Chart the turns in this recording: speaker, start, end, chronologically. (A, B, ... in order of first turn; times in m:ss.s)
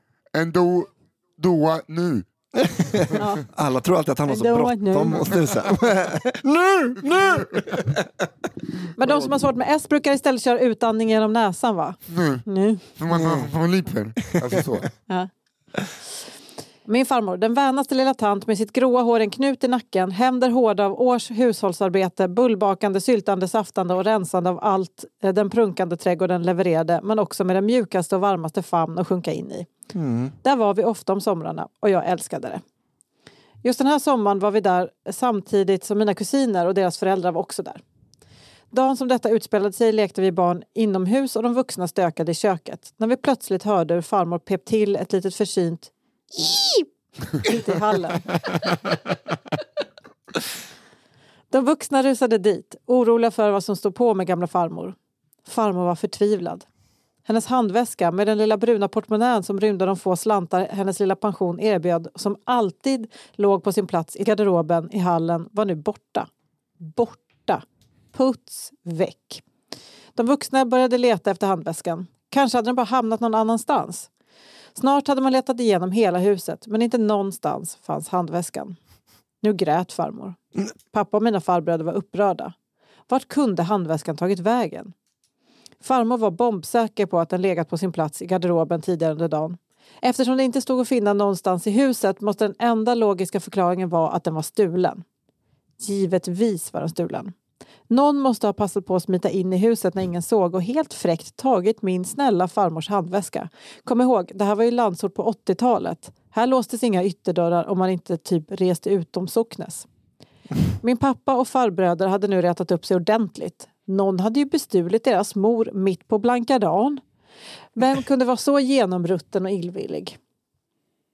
0:00.3-0:02.3 A
0:02.6-0:08.3 B
0:02.9-0:03.2 A
0:03.2-0:03.4 C
0:04.3-0:05.3 C
0:09.0-0:12.8 C
0:12.1-0:12.4 A
0:13.0-0:14.9 A
0:13.1-0:13.5 B
0:14.4-0:14.7 B
0:16.9-0:29.7 C
0:29.9-0:30.3 B
0:30.4-0:32.6 C
0:33.6-0:37.8 C
0:38.7-0:48.3 C
0:51.5-0:56.6 C
0:57.3-1:06.3 C
1:06.8-1:09.4 C
1:10.2-1:14.1 C
1:14.8-1:18.8 C
1:19.4-1:22.5 C
1:23.1-1:24.9 C
1:25.8-1:35.0 C
1:35.8-1:37.3 C
1:37.9-1:49.9 C
1:50.8-1:57.0 C
1:57.8-2:00.2 C